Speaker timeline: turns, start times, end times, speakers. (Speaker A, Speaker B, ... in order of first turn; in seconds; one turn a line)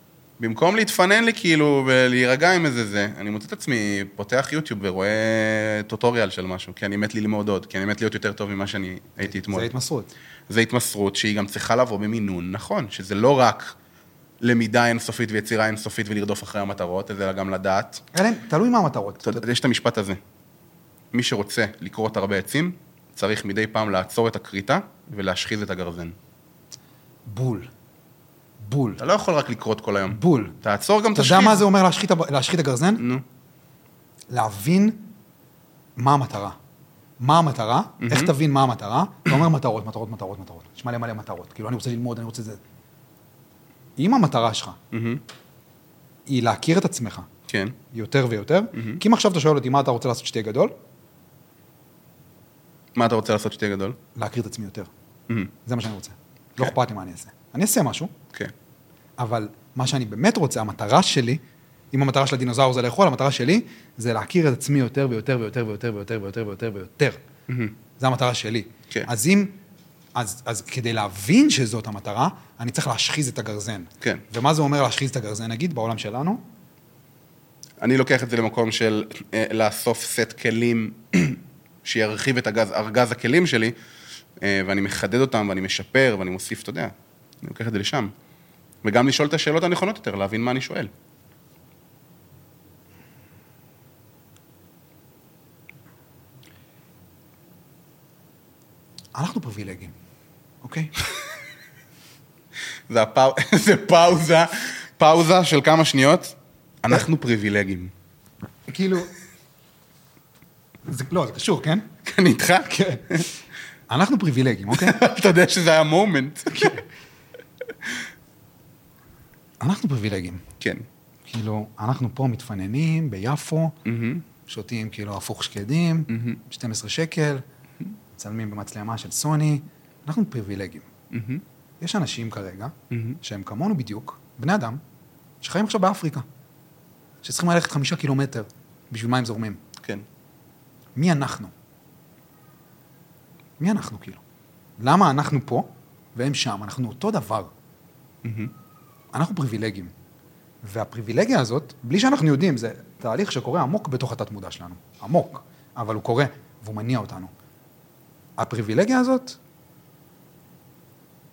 Speaker A: 0.4-9.7
Speaker B: 9.2-10.1
Speaker A: 10.5-13.7
Speaker A: 14.4-18.1
Speaker B: 18.1-19.4
Speaker A: 19.2-20.2
Speaker A: 21.1-26.2
Speaker B: 27.3-27.7
Speaker B: 28.6-29.0
Speaker A: 29.0-31.7
Speaker B: 30.1-30.6
Speaker B: 31.1-33.0
Speaker A: 33.0-33.2
Speaker B: 34.3-35.1
Speaker B: 36.0-36.6
Speaker B: 37.2-42.6
Speaker A: 38.0-38.3
Speaker B: 44.0-44.8
Speaker A: 44.9-45.2
Speaker B: 46.3-47.3
Speaker A: 47.5-47.8
Speaker B: 47.9-50.7
Speaker A: 53.0-54.0
Speaker B: 54.2-54.9
Speaker B: 55.6-58.1
Speaker B: 59.2-61.4
Speaker B: 61.9-67.2
Speaker A: 67.5-67.7
Speaker B: 68.0-69.6
Speaker B: 70.2-76.4
Speaker A: 77.8-83.8
Speaker A: 84.4-88.1
Speaker A: 88.8-90.9
Speaker B: 99.2-99.9
Speaker B: 100.6-100.9
Speaker A: 102.9-107.9
Speaker B: 108.7-109.1
Speaker B: 110.9-111.9
Speaker A: 112.0-113.2
Speaker B: 112.7-113.2
Speaker B: 113.9-115.0
Speaker A: 114.7-116.8
Speaker B: 119.6-120.4
Speaker A: 120.6-120.9
Speaker B: 121.3-123.8
Speaker A: 123.8-124.2
Speaker B: 124.5-127.4
Speaker A: 126.1-126.4
Speaker B: 128.2-130.9
Speaker A: 131.1-131.4
Speaker B: 131.8-134.8
Speaker A: 132.9-133.2
Speaker B: 135.4-136.2
Speaker B: 137.2-139.6
Speaker A: 139.8-140.1
Speaker B: 141.0-141.5
Speaker B: 143.6-144.2
Speaker B: 144.8-147.5
Speaker A: 148.2-148.5
Speaker B: 149.1-149.9
Speaker B: 150.6-157.3
Speaker B: 158.4-159.4